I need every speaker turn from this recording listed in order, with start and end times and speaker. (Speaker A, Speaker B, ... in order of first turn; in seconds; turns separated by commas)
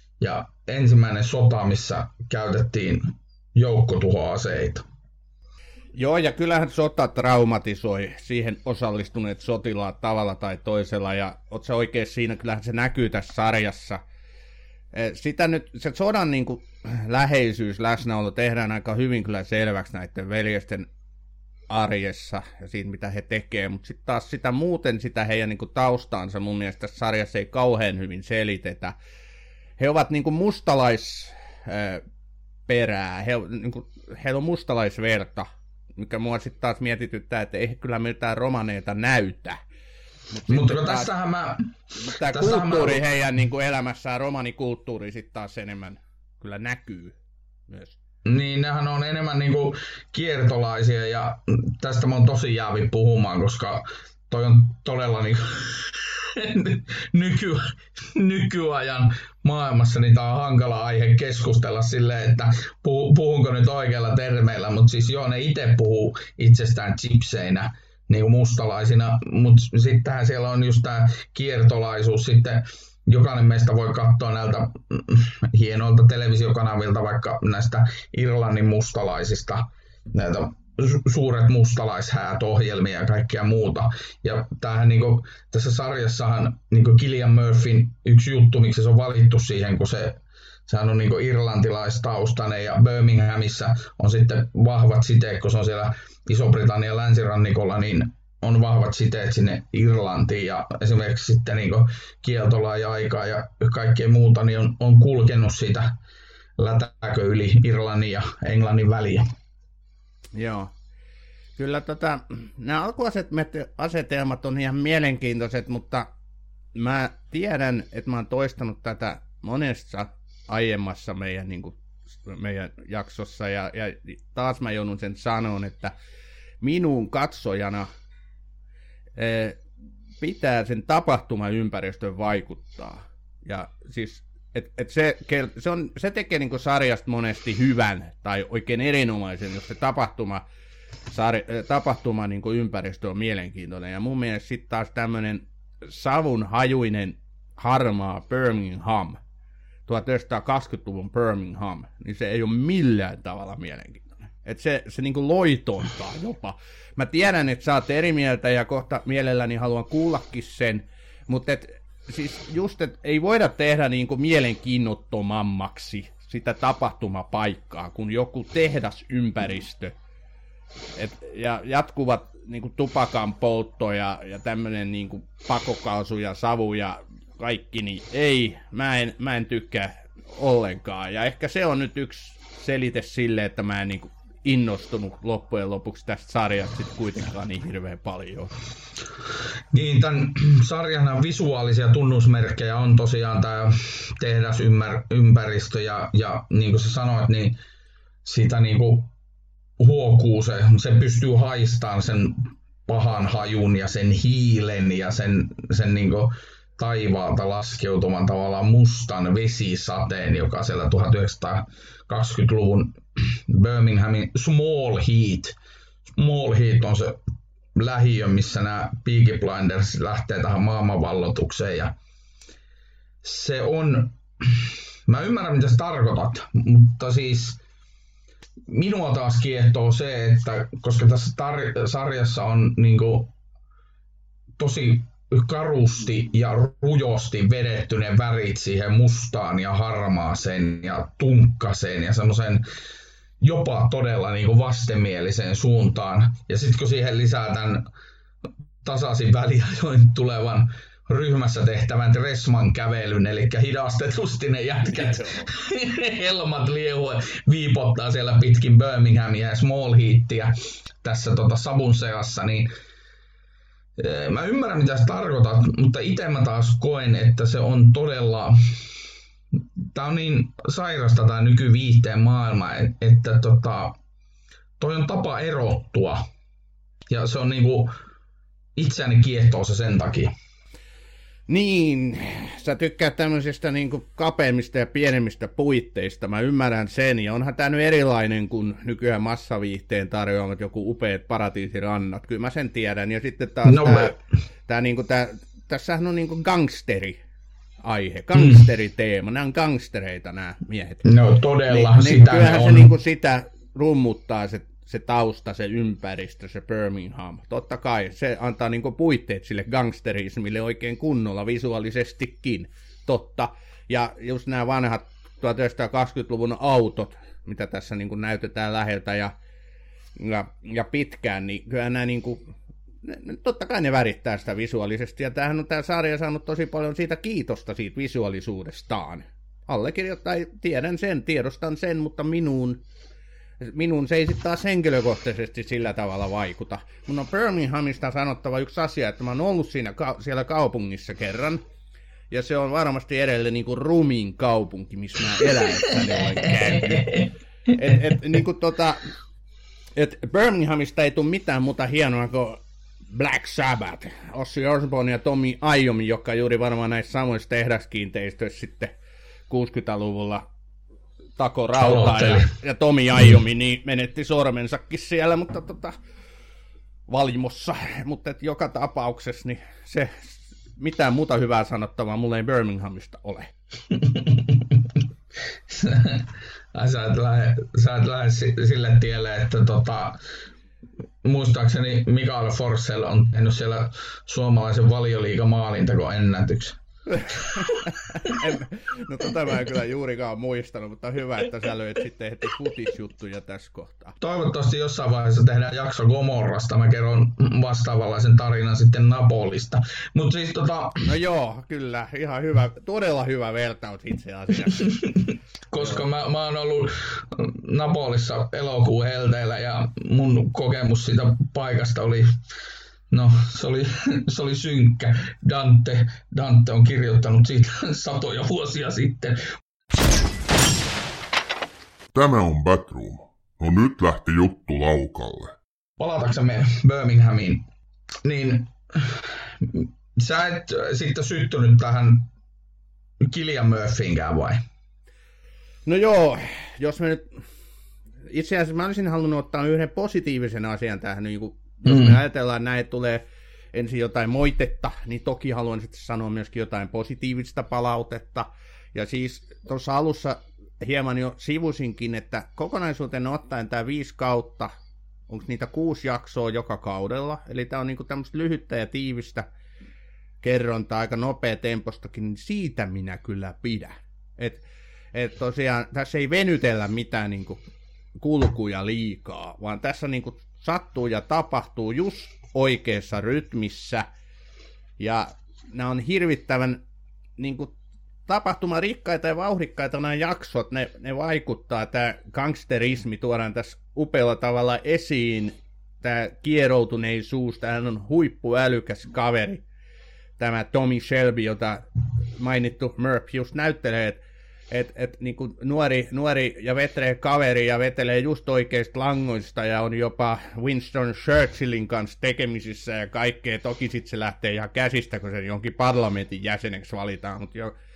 Speaker A: 0.2-4.8, Speaker B: 5.9-14.0, Speaker B: 14.9-20.9, Speaker B: 21.7-28.9, Speaker B: 29.8-32.0, Speaker B: 32.7-39.6, Speaker B: 40.3-41.1, Speaker A: 40.5-41.7, Speaker B: 42.0-47.1, Speaker A: 42.2-43.0, Speaker B: 47.7-48.0, Speaker A: 48.2-106.0, Speaker A: 106.6-109.3, Speaker B: 110.3-110.7, Speaker B: 111.6-116.1, Speaker B: 116.7-125.9, Speaker B: 126.6-127.9, Speaker B: 129.2-129.6, Speaker B: 130.2-140.4, Speaker B: 141.1-149.2, Speaker B: 149.9-169.9, Speaker B: 170.9-188.5, Speaker A: 189.7-197.6, Speaker A: 198.2-199.1, Speaker A: 199.8-215.6, Speaker A: 216.1-217.2, Speaker A: 217.7-221.9, Speaker A: 223.2-227.6, Speaker A: 228.7-233.3, Speaker A: 234.6-242.6, Speaker A: 243.4-247.9, Speaker A: 248.8-262.7, Speaker B: 254.9-255.5, Speaker A: 264.0-268.9, Speaker A: 269.9-273.9, Speaker A: 274.8-276.2, Speaker A: 277.1-277.9, Speaker A: 278.8-280.3, Speaker B: 281.5-294.1, Speaker A: 293.6-294.2, Speaker B: 294.7-297.2, Speaker B: 297.8-301.1, Speaker A: 298.3-298.6, Speaker A: 301.0-302.9, Speaker B: 301.7-319.3, Speaker B: 320.2-322.5, Speaker B: 323.0-332.8, Speaker B: 333.6-341.6, Speaker B: 342.3-349.1, Speaker A: 345.9-347.3, Speaker B: 349.9-358.9, Speaker B: 359.5-360.4, Speaker B: 361.4-365.9, Speaker A: 361.8-362.5, Speaker B: 367.1-373.5, Speaker A: 373.9-375.0, Speaker A: 375.7-380.2, Speaker A: 381.2-386.8, Speaker B: 387.1-394.2, Speaker A: 394.2-401.0, Speaker B: 401.0-405.0, Speaker A: 404.8-412.3, Speaker A: 413.1-419.4, Speaker C: 422.1-425.5, Speaker A: 426.0-427.6, Speaker A: 428.2-432.3, Speaker A: 433.2-434.6, Speaker B: 435.9-437.4, Speaker B: 438.3-454.7, Speaker A: 441.9-442.2, Speaker B: 455.3-459.5, Speaker B: 460.4-467.6, Speaker B: 468.2-474.1, Speaker B: 475.0-476.8, Speaker B: 477.4-477.7, Speaker B: 478.3-489.6, Speaker B: 490.4-494.2, Speaker B: 494.7-507.7